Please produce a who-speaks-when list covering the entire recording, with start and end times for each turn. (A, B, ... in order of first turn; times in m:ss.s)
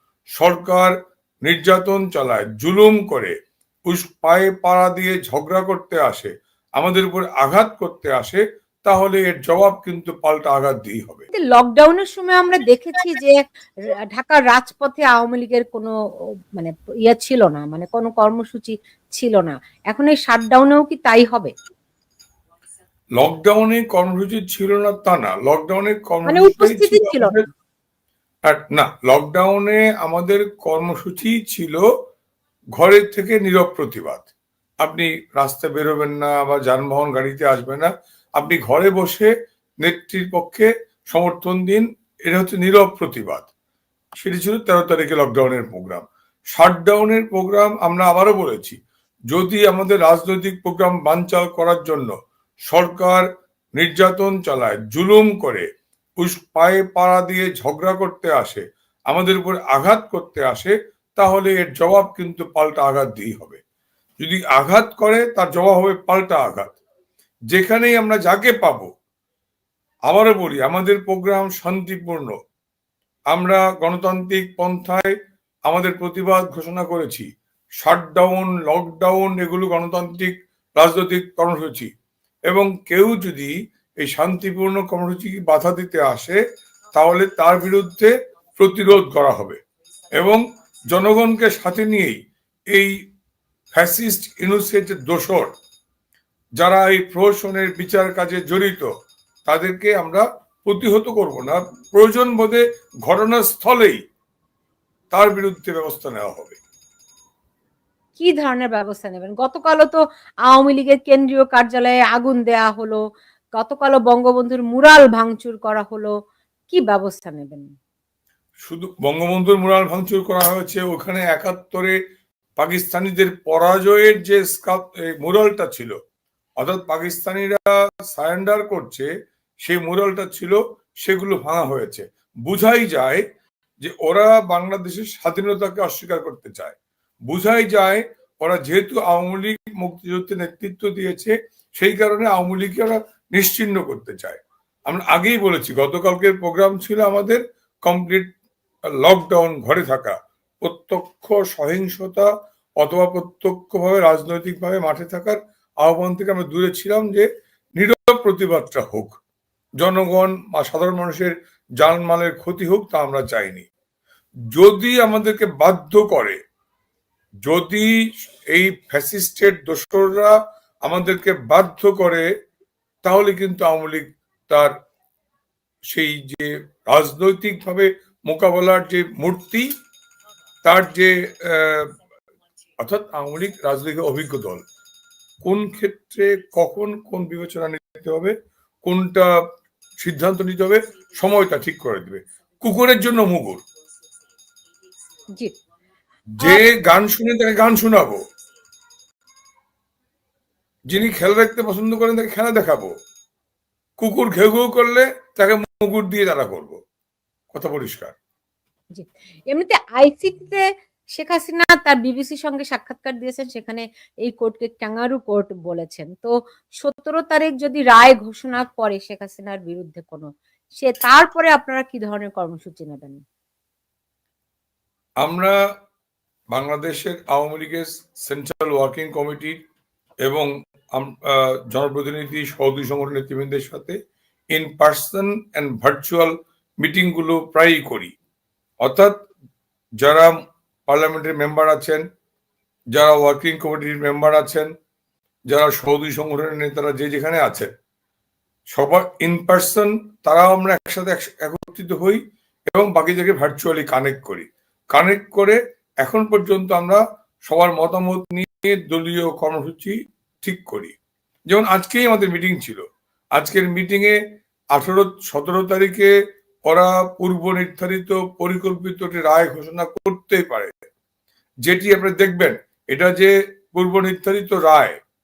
0:00.4-0:00.9 A
0:01.4-0:03.3 A
0:03.9-0:11.2 A
0:11.3-0:15.9 B
0:16.5-0:21.5 B
0:23.2-0:27.4 A
0:26.3-0:27.4 B
0:28.4-0:31.8 A
0:32.8-0:34.3 A
0:34.8-0:39.3 A
0:39.8-0:43.5 A
0:44.2-0:48.8 A
0:49.3-0:52.1 A
0:52.7-0:53.2 A
0:53.8-0:55.7 A
0:56.2-1:03.6 A
1:04.2-1:06.8 A
1:07.5-1:08.9 A
1:10.1-1:12.3 A
1:13.3-1:15.1 A
1:15.7-1:17.3 A
1:17.8-1:21.9 A
1:22.5-1:26.4 A
1:26.9-1:29.6 A
1:30.1-1:32.2 A
1:33.7-1:35.5 A
1:36.6-1:38.9 A
1:39.4-1:44.0 A
1:45.1-1:46.6 A
1:48.2-1:53.0 B
1:53.6-1:56.1 B
1:56.7-1:57.7 B
1:58.6-2:02.0 A
2:02.6-2:05.9 A
2:06.6-2:09.1 A
2:09.6-2:13.2 A
2:13.8-2:16.8 A
2:17.3-2:28.3 A
2:29.0-2:32.3 A
2:32.8-2:39.2 A
2:39.8-2:43.7 A
2:44.5-2:46.4 A
2:47.4-2:47.9 A
2:48.5-2:50.3 A
2:50.9-2:52.2 A
2:53.0-2:54.7 A
2:55.9-2:59.7 A
3:00.6-3:02.0 A
3:02.8-3:04.6 A
3:05.4-3:09.3 A
3:10.0-3:13.6 A
3:16.3-3:18.2 A
3:16.4-3:16.7 B
3:20.9-3:22.9 A
3:24.0-3:26.8 A
3:27.5-3:28.2 A
3:28.9-3:30.6 B
3:31.1-3:43.2 B
3:45.2-3:45.6 A
3:46.5-3:49.6 A
3:50.2-3:54.0 A
3:54.5-3:58.1 A
3:58.8-3:59.1 A
4:00.0-4:00.3 A
4:00.9-4:02.0 A
4:02.9-4:04.7 A
4:05.5-4:07.7 A
4:08.7-4:12.2 A
4:12.7-4:20.9 A
4:21.5-4:22.8 A
4:23.4-4:24.2 A
4:24.7-4:26.1 A
4:26.7-4:30.7 A
4:31.7-4:35.0 A